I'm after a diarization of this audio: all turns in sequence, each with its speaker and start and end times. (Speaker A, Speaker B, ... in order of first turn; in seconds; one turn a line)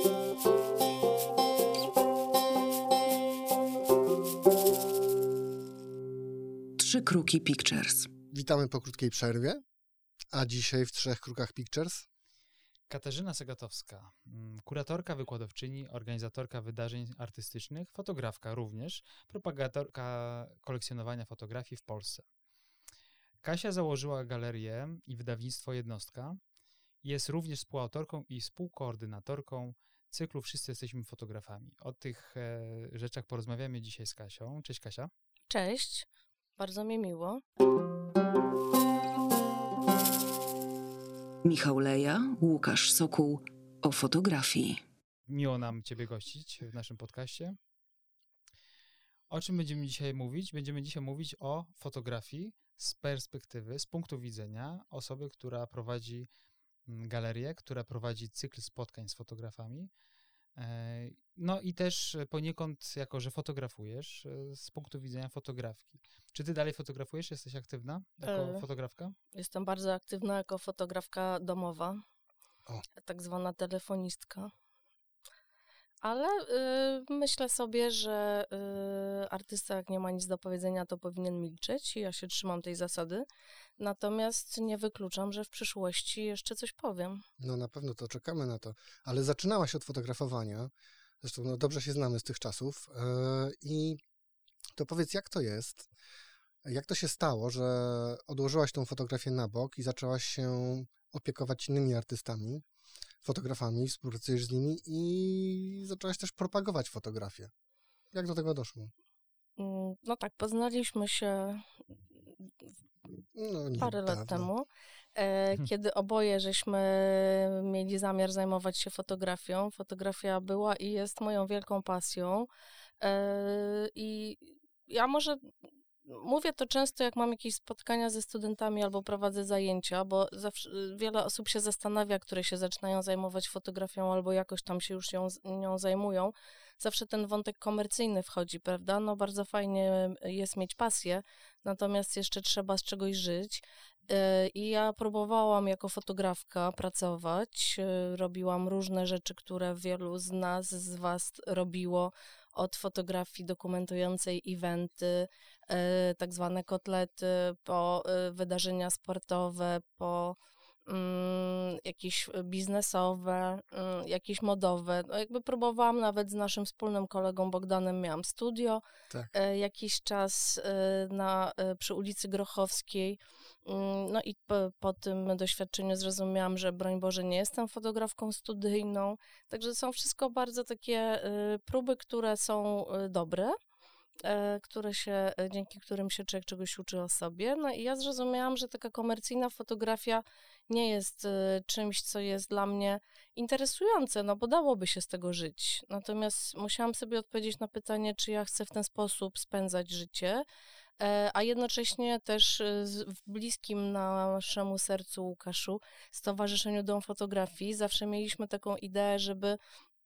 Speaker A: 6.8-8.1
Speaker B: 8.3-9.6
Speaker B: 10.3-12.1
Speaker C: 12.9-22.2
Speaker C: 23.4-26.4
Speaker C: 27.0-35.1
Speaker D: 35.5-36.1
Speaker D: 36.6-37.4
Speaker A: 41.5-44.8
Speaker C: 45.3-47.6
Speaker C: 49.3-56.3
Speaker C: 56.9-59.9
Speaker C: 60.6-69.2
Speaker D: 68.2-68.6
Speaker D: 69.3-72.0
Speaker D: 73.0-74.5
Speaker D: 76.0-83.3
Speaker D: 83.8-87.2
Speaker B: 87.4-94.0
Speaker B: 94.8-95.9
Speaker B: 96.7-102.6
Speaker B: 103.2-107.5
Speaker B: 108.1-108.9
Speaker D: 109.6-111.8
Speaker D: 112.4-112.7
Speaker B: 113.3-114.5
Speaker D: 113.8-122.5
Speaker D: 123.0-125.5
Speaker D: 126.1-183.6
Speaker D: 184.2-200.4
Speaker D: 201.0-209.6